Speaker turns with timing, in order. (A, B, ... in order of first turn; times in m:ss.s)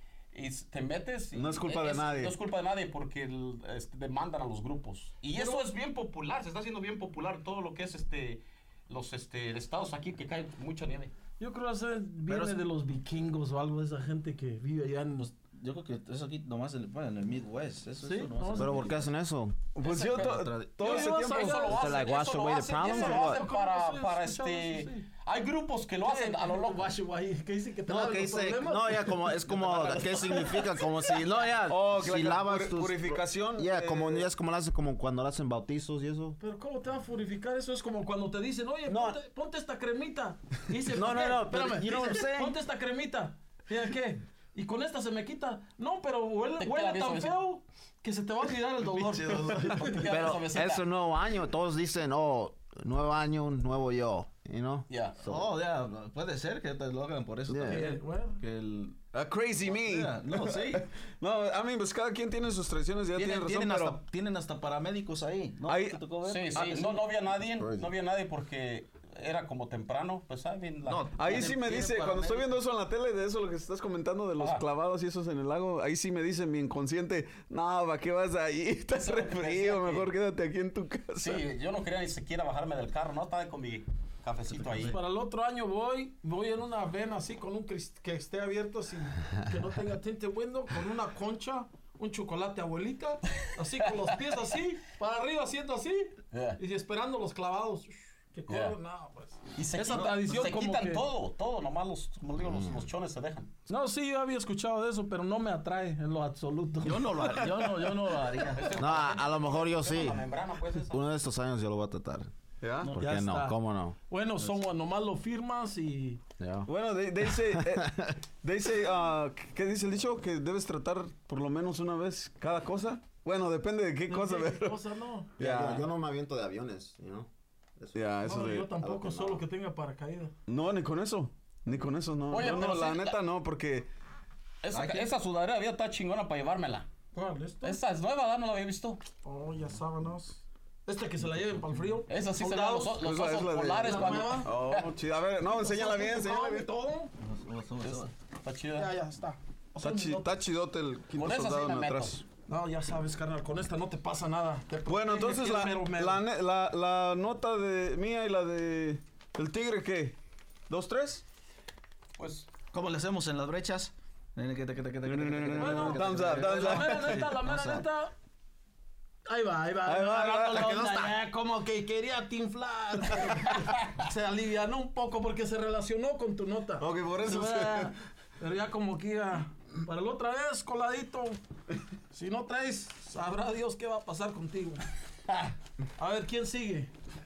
0:00.3-0:11.1 A
0:01.3-0:02.3 B
0:05.3-0:05.6 C
0:11.4-0:15.3 C
0:12.3-0:12.6 D
0:15.2-0:19.0 D
0:18.0-0:18.8 C
0:18.6-0:19.6 E
0:19.8-0:21.8 B
0:19.8-0:26.8 A
0:20.3-0:20.7 D
0:20.8-0:21.8 C
0:21.7-0:23.4 E
0:22.8-0:25.1 C
0:26.0-0:31.2 C
0:27.9-0:36.4 E
0:31.7-0:34.3 B
0:36.4-0:50.0 C
0:38.9-0:39.2 E
0:40.9-0:42.6 E
0:46.6-0:47.4 A
0:49.0-0:50.0 D
0:49.7-0:50.8 A
0:50.0-0:55.5 E
0:54.9-0:55.2 A
0:55.2-0:59.0 D
0:57.5-0:57.9 E
0:57.6-0:58.4 C
0:59.1-1:04.0 B
0:59.6-1:00.8 D
1:03.2-1:07.0 D
1:05.7-1:06.0 B
1:06.2-1:11.5 A
1:07.6-1:07.9 E
1:10.9-1:12.6 D
1:11.2-1:21.4 B
1:14.4-1:14.6 A
1:18.9-1:20.1 A
1:21.2-1:25.0 A
1:24.8-1:41.0 C
1:36.3-1:36.6 A
1:38.5-1:38.8 A
1:39.6-1:43.6 A
1:42.4-1:42.9 E
1:43.7-1:47.6 C
1:46.8-1:48.9 D
1:48.6-1:51.0 A
1:48.8-1:50.3 E
1:50.8-1:52.3 E
1:52.6-1:52.9 B
1:52.9-1:54.0 E
1:53.0-1:56.2 C
1:56.4-1:56.7 E
1:56.7-2:04.8 B
1:57.3-1:58.2 E
2:04.1-2:05.3 C
2:05.4-2:05.9 B
2:05.4-2:09.4 E
2:07.9-2:08.7 B
2:08.2-2:10.3 C
2:10.5-2:13.9 B
2:12.3-2:13.2 A
2:14.6-2:16.9 A
2:14.7-2:15.1 D
2:17.1-2:17.8 C
2:17.6-2:19.0 A
2:19.2-2:23.0 C
2:22.1-2:24.9 A
2:23.0-2:26.7 B
2:23.8-2:24.5 C
2:25.5-2:27.1 C
2:27.2-2:28.1 D
2:27.8-2:28.9 A
2:28.7-2:30.4 C
2:29.8-2:32.2 B
2:31.1-2:32.2 A
2:32.5-2:36.2 C
2:34.9-2:40.2 B
2:40.7-2:41.2 B
2:42.2-2:42.5 A
2:42.7-2:47.8 D
2:45.0-2:47.2 B
2:45.6-2:48.1 C
2:49.3-3:01.4 C
2:49.9-2:51.1 B
2:56.8-2:57.9 B
3:02.1-3:04.9 C
3:06.0-3:06.9 C